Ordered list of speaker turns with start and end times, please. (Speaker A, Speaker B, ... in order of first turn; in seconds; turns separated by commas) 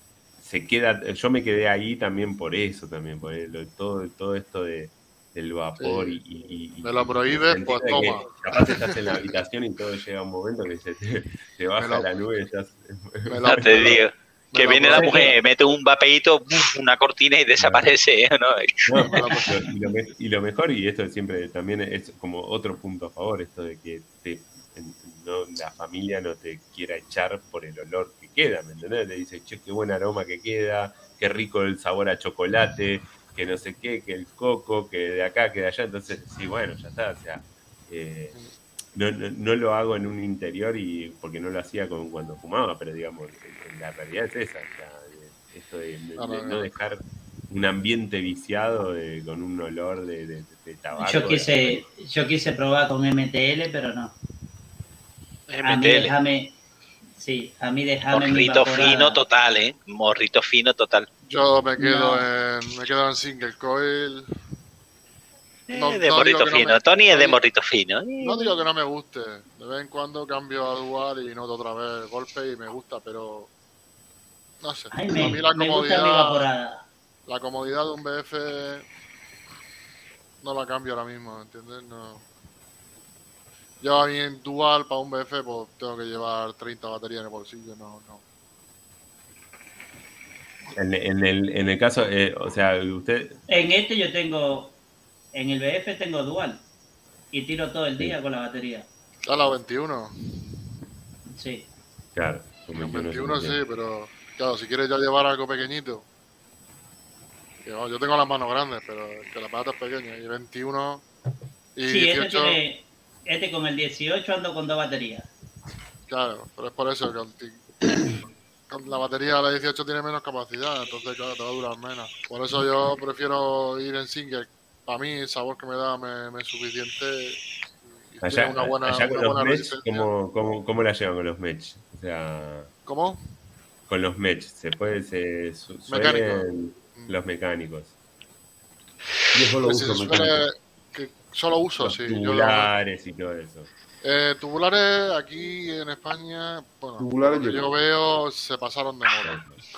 Speaker A: 0.4-14.0, Speaker B: 5.8-6.2, Speaker B: 6.8-9.2, Speaker B: 11.8-12.1, Speaker B: 13.2-15.4, Speaker C: 13.4-19.3, Speaker A: 14.9-15.3, Speaker A: 17.6-17.9, Speaker A: 18.9-38.4, Speaker B: 19.0-19.6, Speaker A: 38.9-51.8, Speaker B: 46.2-46.7, Speaker D: 50.9-54.1, Speaker C: 55.5-56.1, Speaker D: 55.6-56.5, Speaker D: 57.2-59.2, Speaker C: 58.1-61.1, Speaker B: 61.3-64.3, Speaker D: 61.8-62.2, Speaker C: 65.7-68.6, Speaker B: 65.7-67.4, Speaker B: 68.2-73.5, Speaker B: 74.6-76.5, Speaker D: 74.9-76.8, Speaker B: 77.3-78.9, Speaker B: 80.4-82.2, Speaker B: 83.8-88.2, Speaker A: 90.8-93.4, Speaker D: 93.5-94.8, Speaker D: 95.3-96.6, Speaker D: 97.3-98.9, Speaker B: 99.3-100.2, Speaker D: 101.4-101.7, Speaker A: 102.2-103.6, Speaker B: 102.7-106.1, Speaker B: 107.7-111.1, Speaker B: 111.8-112.6, Speaker D: 111.9-115.3, Speaker B: 116.1-117.7, Speaker B: 118.7-127.4, Speaker B: 128.1-130.1, Speaker A: 128.2-132.7, Speaker B: 132.9-133.2, Speaker A: 133.9-137.9, Speaker B: 135.9-137.2, Speaker E: 139.3-140.5, Speaker B: 139.6-142.7, Speaker A: 141.8-143.7, Speaker B: 144.0-149.4, Speaker E: 147.0-147.7, Speaker A: 149.2-149.6